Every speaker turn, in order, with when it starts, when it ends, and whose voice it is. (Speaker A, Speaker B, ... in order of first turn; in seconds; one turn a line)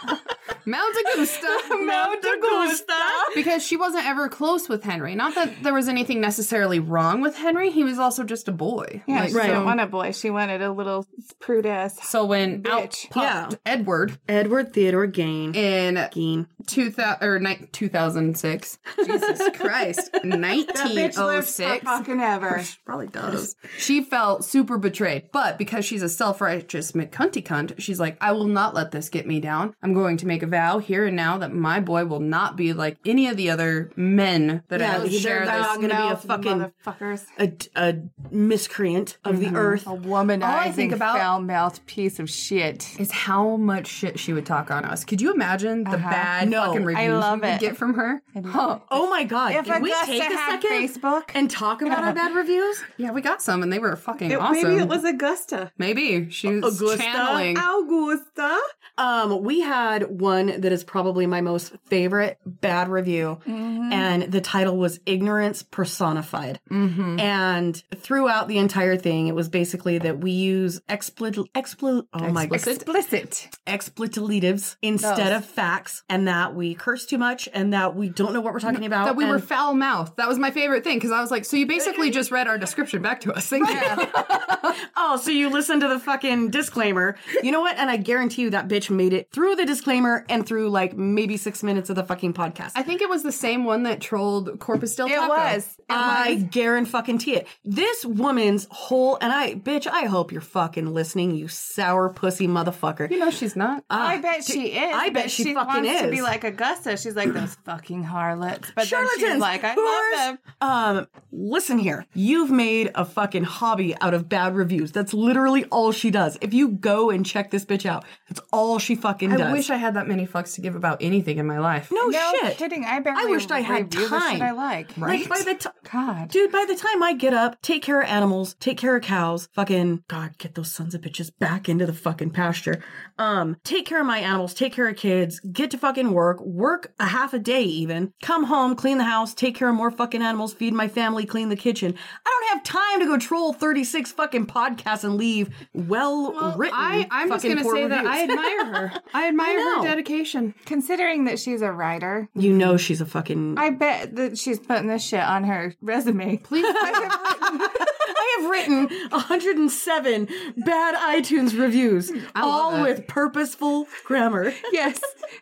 Speaker A: 0.7-9.8
Speaker B: 1.6-3.4
Speaker C: 2.8-3.4
Speaker C: 9.1-13.1
Speaker B: 9.3-9.8
Speaker A: 12.0-14.2
Speaker B: 13.1-13.6
Speaker B: 14.3-16.5
Speaker A: 15.5-16.1
Speaker A: 16.6-35.8
Speaker C: 19.0-19.5
Speaker C: 20.7-22.7
Speaker B: 34.7-36.7
Speaker C: 34.9-37.3
Speaker B: 37.4-39.9
Speaker A: 39.3-39.9
Speaker C: 39.8-43.0
Speaker A: 40.4-41.3
Speaker A: 43.0-48.9
Speaker C: 45.9-46.3
Speaker B: 46.4-46.9
Speaker C: 46.9-47.7
Speaker C: 48.4-48.8
Speaker B: 48.9-52.9
Speaker C: 49.5-52.2
Speaker A: 53.0-55.0
Speaker C: 54.3-55.7
Speaker A: 55.8-57.7
Speaker B: 56.5-57.6
Speaker C: 57.5-58.6
Speaker B: 59.0-72.6
Speaker C: 63.5-64.1
Speaker A: 66.7-67.2
Speaker A: 72.2-72.9
Speaker C: 72.5-73.5
Speaker B: 73.7-79.5
Speaker C: 75.0-75.3
Speaker A: 78.9-84.8
Speaker B: 83.6-92.8
Speaker C: 83.6-84.1
Speaker A: 92.8-95.6
Speaker C: 95.1-96.4
Speaker B: 95.9-103.2
Speaker A: 103.1-103.9
Speaker B: 103.9-106.4
Speaker C: 103.9-110.4
Speaker B: 108.8-119.7
Speaker A: 119.3-121.9
Speaker B: 121.9-125.8
Speaker C: 122.0-126.3
Speaker A: 125.0-125.3
Speaker B: 126.3-149.9
Speaker A: 146.5-150.6
Speaker C: 150.7-152.7
Speaker B: 152.4-153.6
Speaker C: 153.6-157.8
Speaker A: 156.4-157.4
Speaker B: 156.8-164.7
Speaker A: 162.3-163.1
Speaker C: 164.7-165.2